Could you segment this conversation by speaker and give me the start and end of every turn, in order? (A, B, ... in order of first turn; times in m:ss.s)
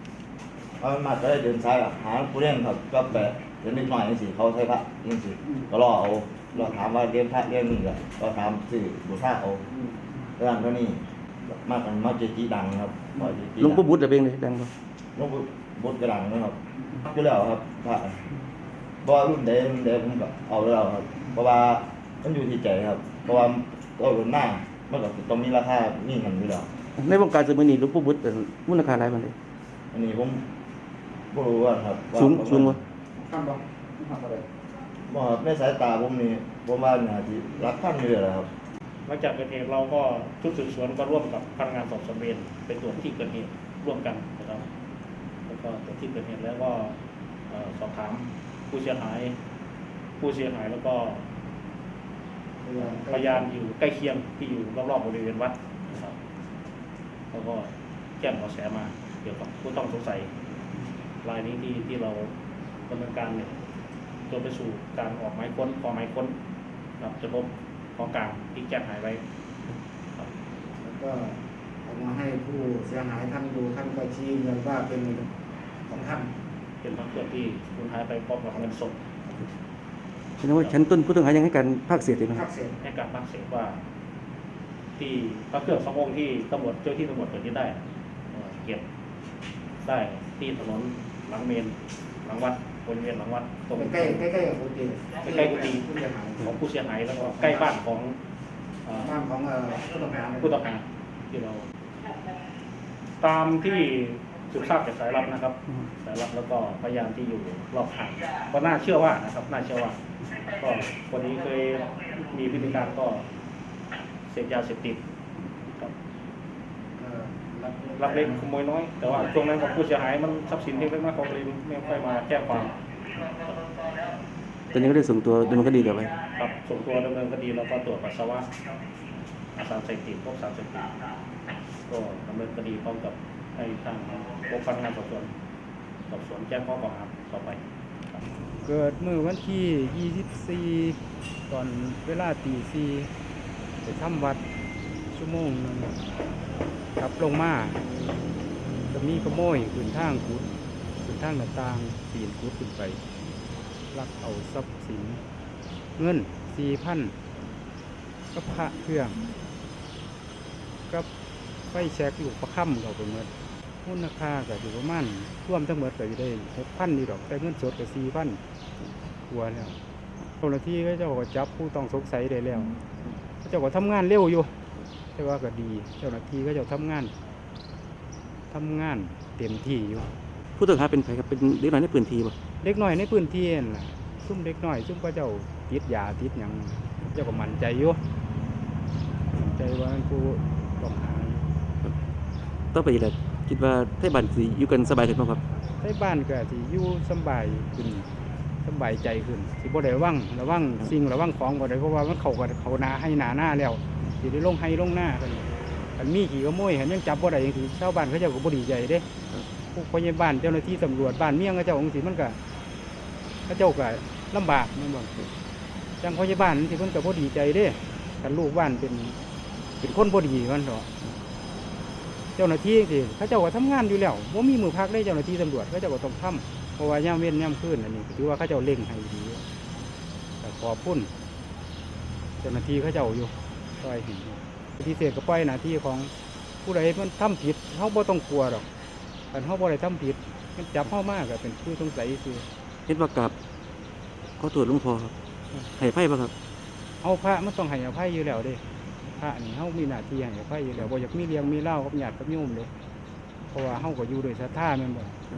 0:00.8-0:09.6 A
0:10.4-0:13.8 A
0:13.6-0:14.7 B
0:15.2-0:18.2 A
0:19.0-0:26.7 A
0:27.0-0:29.3 B
0:29.9-0:30.4 A
0:31.3-0:32.8 A
0:32.1-0:32.7 B
0:33.2-0:34.4 C
0:35.1-0:38.5 A
0:39.1-0:44.7 D
0:45.5-0:47.0 D
0:47.5-0:49.4 D
0:50.2-0:51.2 D
0:52.6-0:53.4 C
0:52.8-0:56.2 D
0:57.3-1:00.3 D
1:01.2-1:02.3 D
1:02.9-1:03.5 D
1:04.2-1:06.3 D
1:07.0-1:09.2 D
1:10.8-1:15.3 C
1:15.9-1:16.3 C
1:16.8-1:19.0 D
1:20.4-1:22.4 B
1:22.3-1:22.8 C
1:22.8-1:23.8 D
1:25.0-1:27.8 D
1:28.4-1:28.8 D
1:29.8-1:34.2 D
1:33.7-1:36.5 C
1:35.2-1:38.2 D
1:37.1-1:37.8 C
1:38.8-1:39.1 D
1:38.9-1:40.6 C
1:40.4-1:41.6 D
1:43.2-1:50.0 D
1:50.5-1:53.2 D
1:54.3-1:55.0 D
1:57.0-1:58.4 C
1:58.0-2:04.2 D
2:04.7-2:06.1 B
2:06.2-2:08.5 D
2:09.5-2:10.9 D
2:11.9-2:15.3 D
2:16.1-2:18.2 D
2:18.6-2:23.1 E
2:23.8-2:24.4 E
2:25.1-2:26.0 E
2:27.0-2:27.8 E
2:28.9-2:30.5 E
2:31.0-2:33.0 E
2:33.9-2:35.2 E
2:36.0-2:37.1 E
2:38.3-2:39.2 E
2:41.7-2:43.3 E
2:43.8-2:48.4 E
2:49.3-2:49.8 E
2:50.4-2:52.8 E
2:53.4-2:54.5 E
2:55.1-2:57.1 E
2:58.5-3:00.0 E
3:00.6-3:02.3 B
3:02.6-3:08.0 E
3:09.3-3:11.4 E
3:12.7-3:15.4 B
3:15.8-3:18.1 E
3:18.6-3:29.0 E
3:29.7-3:32.4 E
3:33.5-3:35.3 E
3:36.0-3:39.2 E
3:39.8-3:40.9 E
3:42.4-3:49.4 E
3:50.4-3:51.1 E
3:52.4-3:56.1 E
3:56.6-3:58.6 E
3:59.3-4:02.4 E
4:02.9-4:03.3 B
4:04.4-4:05.1 B
4:05.8-4:06.3 B
4:07.0-4:08.6 E
4:09.2-4:12.7 E
4:13.5-4:15.2 E